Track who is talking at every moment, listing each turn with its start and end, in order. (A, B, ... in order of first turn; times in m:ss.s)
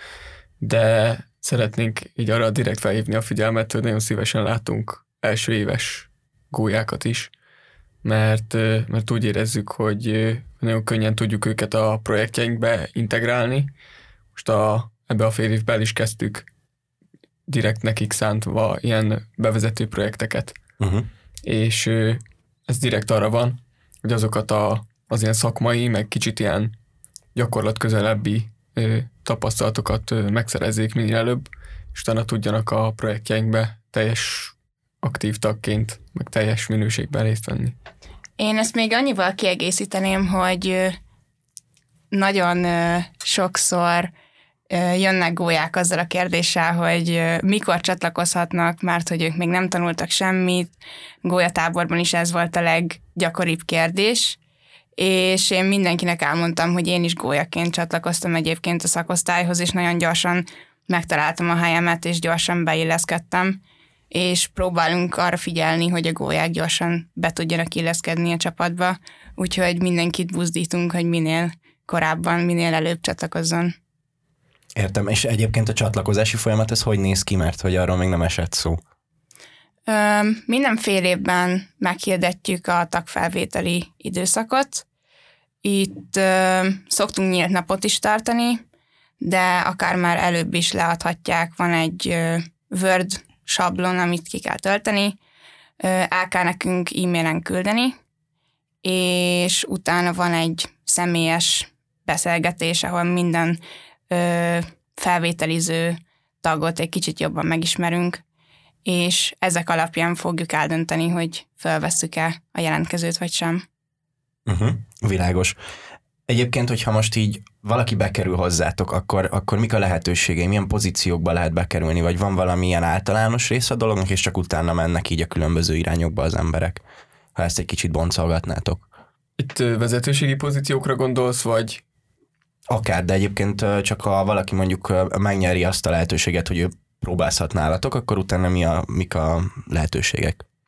0:00.6-0:07.3 A
0:08.0-0:13.7 A
0:14.4-0:16.5 A
0:17.5-0:20.6 A
0:20.8-0:21.1 B
0:21.4-0:26.7 A
0:27.4-0:37.8 A
0:38.4-0:41.0 C
0:42.1-0:44.1 C
0:44.7-0:54.4 C
0:55.0-1:13.8 C
1:14.8-1:18.8 B
1:19.9-1:24.8 C
1:25.6-1:28.6 C
1:29.2-1:35.2 C
1:35.8-1:38.0 C
1:38.8-1:48.2 C
1:48.8-1:53.6 C
1:54.5-1:55.6 B
1:56.3-2:06.8 B
2:07.4-2:08.9 B
2:09.4-2:11.8 A
2:12.7-2:20.4 B